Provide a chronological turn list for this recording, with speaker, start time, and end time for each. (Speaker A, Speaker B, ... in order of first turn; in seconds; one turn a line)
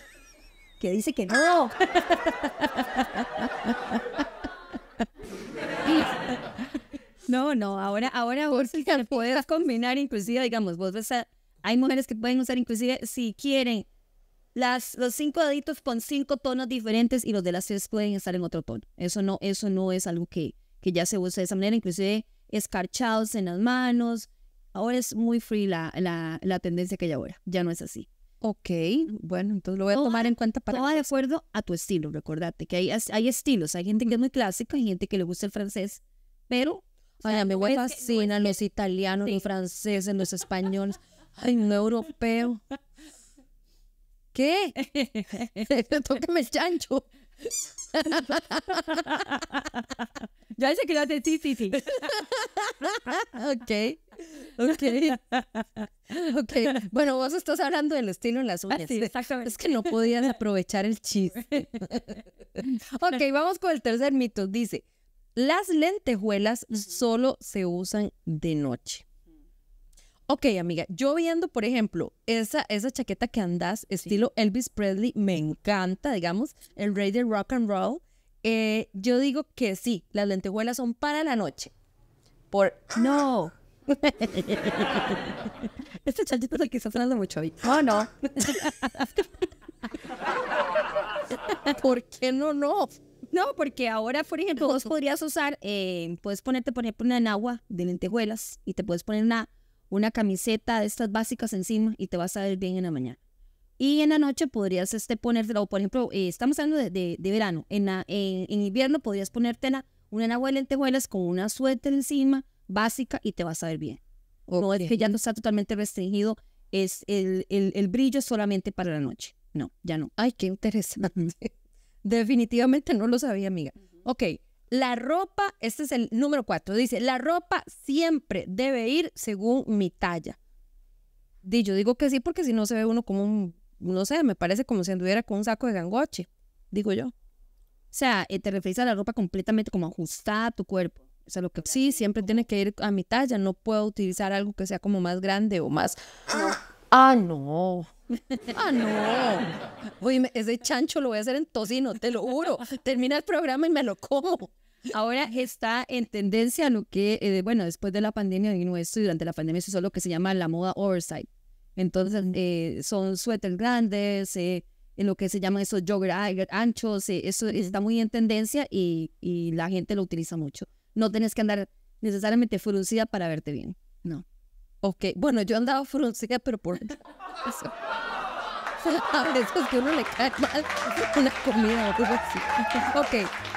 Speaker A: 0.8-2.3
Speaker A: 7.3-13.9
Speaker A: 14.5-28.1
Speaker B: 28.4-31.1
Speaker A: 29.9-38.5
Speaker B: 37.2-42.6
Speaker B: 44.3-44.8
Speaker A: 44.8-45.5
Speaker B: 45.5-47.0
Speaker B: 47.9-49.0
Speaker A: 49.0-49.2
Speaker A: 50.5-52.1
Speaker B: 51.9-55.2
Speaker B: 56.1-64.8
Speaker A: 58.7-60.1
Speaker B: 65.3-69.0
Speaker B: 70.3-81.7
Speaker B: 82.5-83.0
Speaker A: 82.9-85.2
Speaker A: 86.0-89.0
Speaker B: 88.5-89.1
Speaker B: 91.7-93.0
Speaker A: 93.3-103.2
Speaker A: 103.8-114.0
Speaker B: 114.5-114.9
Speaker A: 114.5-120.2
Speaker B: 120.2-121.5
Speaker B: 122.0-130.4
Speaker B: 131.4-137.1
Speaker A: 137.9-142.2
Speaker B: 141.6-147.9
Speaker B: 148.5-154.5
Speaker A: 154.9-174.2
Speaker B: 167.5-167.8
Speaker B: 174.8-177.7
Speaker B: 178.8-183.3